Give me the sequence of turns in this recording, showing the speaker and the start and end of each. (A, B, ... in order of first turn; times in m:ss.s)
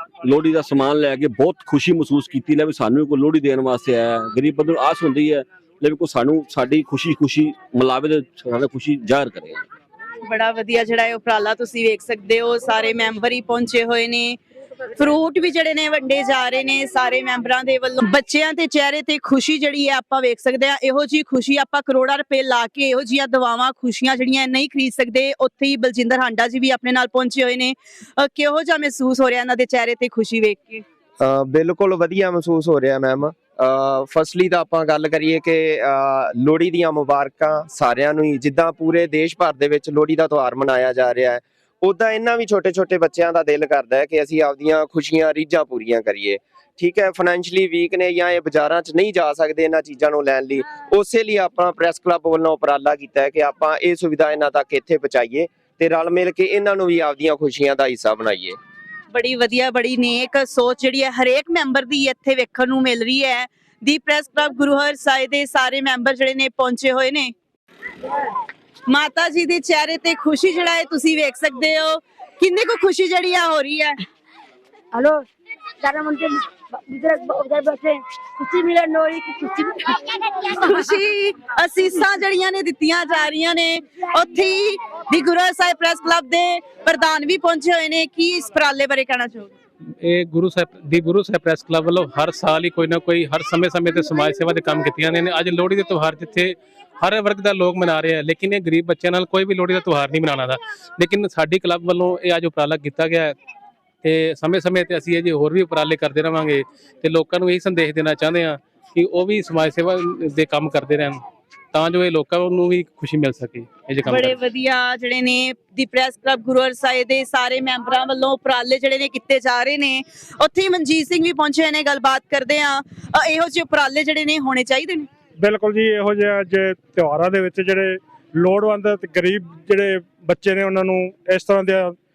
0:00.2-0:09.7 A
0:10.2-0:14.4 B
0:15.0-0:30.8 B
0:31.2-0:58.6 C
0:59.1-1:07.3 B
1:08.9-1:14.0 B
1:14.9-1:15.3 D
1:15.8-1:20.9 D
1:20.6-1:29.5 B
1:30.0-1:43.4 E
1:44.0-1:51.2 E
1:51.7-1:54.4 E
1:54.0-2:05.1 B
2:05.4-2:12.0 F